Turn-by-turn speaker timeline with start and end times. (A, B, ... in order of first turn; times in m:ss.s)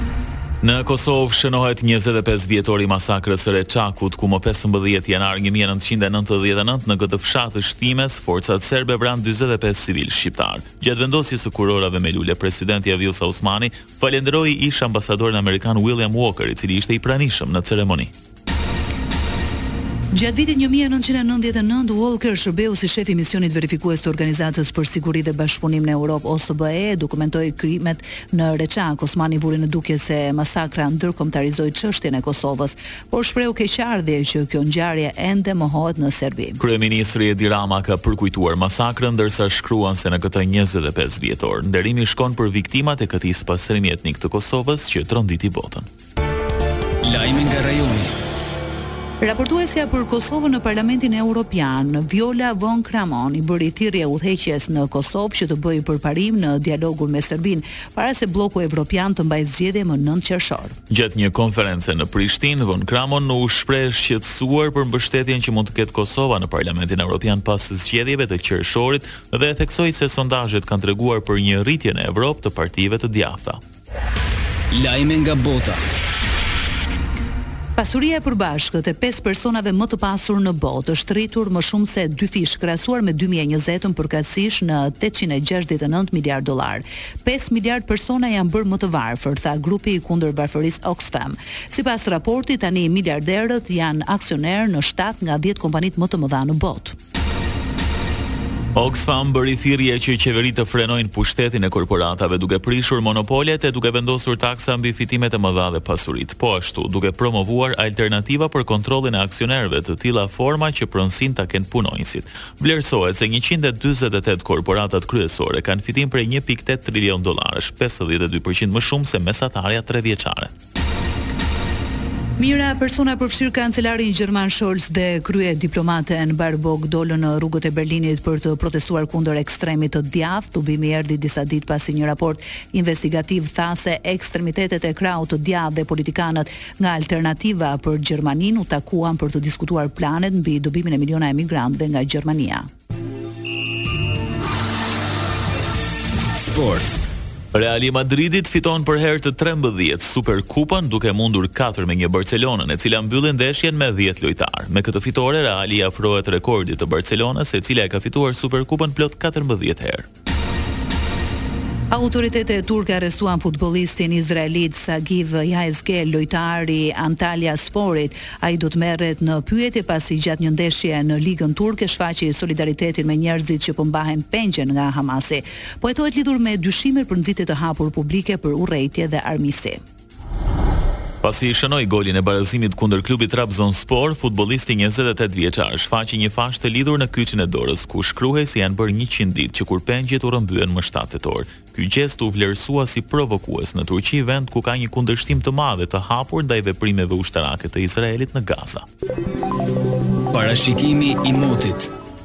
0:00.6-0:18.1 A
0:20.1-0:36.6 B
0:36.6-0:45.9 A
0:47.0-0:48.2 C
0:49.2-1:00.8 B
1:00.9-1:13.6 A
1:14.7-1:15.8 C
1:17.8-1:36.9 B
1:38.8-2:00.5 A
2:02.4-2:22.7 B
2:26.4-2:26.9 C
2:27.5-2:40.1 A
2:41.9-2:59.8 B
3:01.2-3:18.8 A
3:20.3-3:21.9 C